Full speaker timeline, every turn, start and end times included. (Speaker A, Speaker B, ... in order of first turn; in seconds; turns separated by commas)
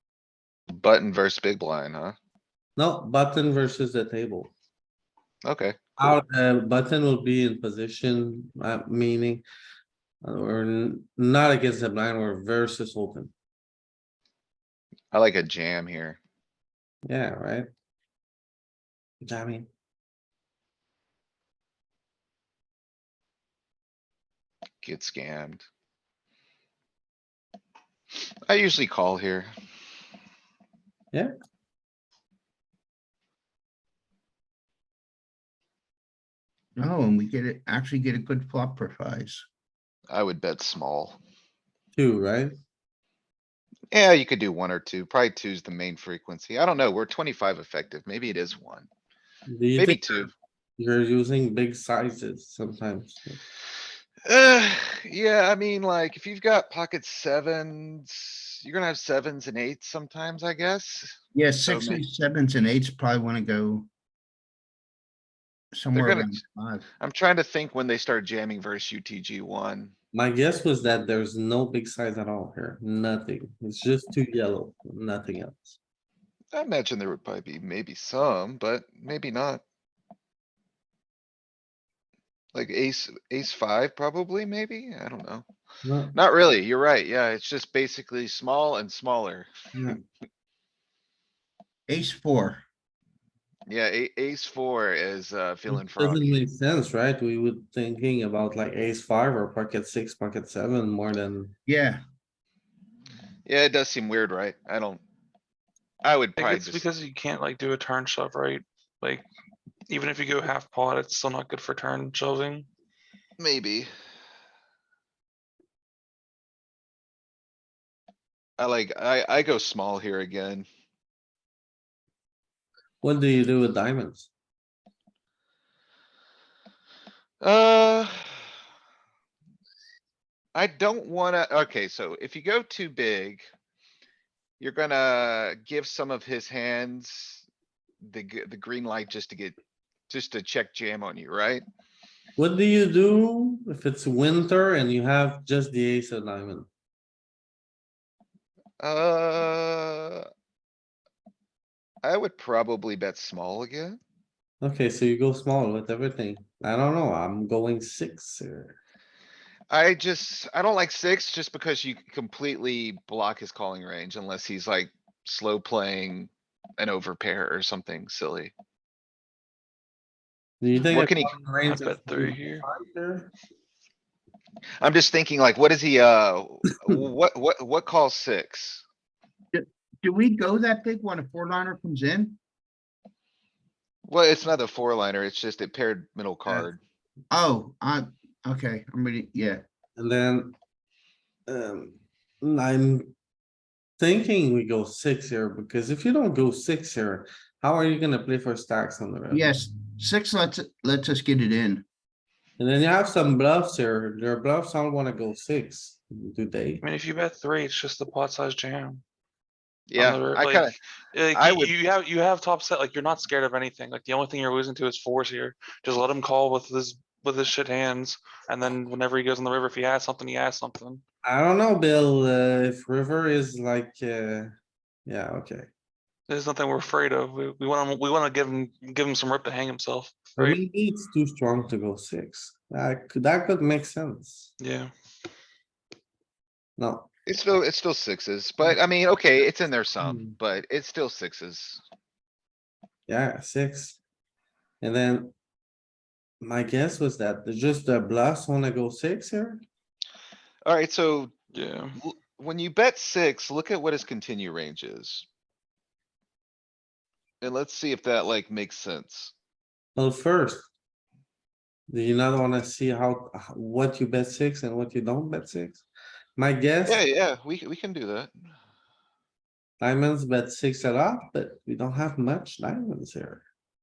Speaker A: 0.7-2.2, Speaker B: 2.8-4.5, Speaker A: 5.4-6.2, Speaker B: 6.0-9.4, Speaker B: 10.2-13.3, Speaker A: 15.1-16.2, Speaker B: 17.0-17.7, Speaker B: 19.2-19.7, Speaker A: 24.8-25.6, Speaker A: 28.4-29.5, Speaker C: 36.8-39.4, Speaker A: 40.1-41.2, Speaker B: 41.9-42.5, Speaker A: 43.9-48.9, Speaker B: 49.5-53.4, Speaker A: 49.8-50.3, Speaker A: 54.3-62.0, Speaker C: 61.3-63.9, Speaker C: 65.7-66.8, Speaker A: 65.9-66.3, Speaker A: 67.0-69.9, Speaker B: 70.1-75.8, Speaker A: 76.5-79.6, Speaker A: 82.5-85.5, Speaker B: 85.8-86.1, Speaker A: 86.1-90.0, Speaker C: 91.9-92.6, Speaker A: 93.7-96.5, Speaker B: 95.7-101.5, Speaker C: 101.7-102.0, Speaker A: 103.5-105.0, Speaker A: 106.0-106.8, Speaker D: 106.4-109.2, Speaker D: 109.9-112.7, Speaker A: 113.4-113.9, Speaker A: 118.6-120.7, Speaker B: 123.0-124.3, Speaker A: 127.4-128.5, Speaker A: 130.5-133.5, Speaker A: 134.6-137.4, Speaker A: 138.0-139.6, Speaker A: 140.1-141.6, Speaker B: 142.4-146.7, Speaker A: 148.8-150.2, Speaker A: 152.0-154.0, Speaker B: 154.6-158.8, Speaker A: 159.7-168.5, Speaker B: 170.6-173.3, Speaker A: 170.8-171.3, Speaker D: 171.6-172.7, Speaker A: 174.8-178.8, Speaker C: 179.5-182.4, Speaker A: 184.1-186.8, Speaker C: 187.3-189.6, Speaker B: 190.0-190.5, Speaker B: 191.5-193.1, Speaker B: 194.0-199.5, Speaker C: 199.3-201.8, Speaker B: 202.6-206.8, Speaker D: 206.8-209.0, Speaker A: 209.9-210.7, Speaker D: 209.9-221.0, Speaker A: 211.3-211.7, Speaker B: 221.2-224.5, Speaker B: 225.1-225.7, Speaker D: 226.3-230.6, Speaker B: 230.4-234.5, Speaker D: 234.6-234.9, Speaker B: 236.8-237.1, Speaker A: 237.2-241.8, Speaker B: 240.0-240.3, Speaker B: 243.1-244.0, Speaker B: 244.8-245.3, Speaker B: 246.4-249.6, Speaker A: 250.7-251.3, Speaker D: 251.5-252.0, Speaker A: 252.0-255.2, Speaker A: 257.4-259.3, Speaker B: 259.9-260.7, Speaker B: 261.9-265.8, Speaker B: 266.4-267.0, Speaker A: 266.8-268.4, Speaker B: 269.8-273.4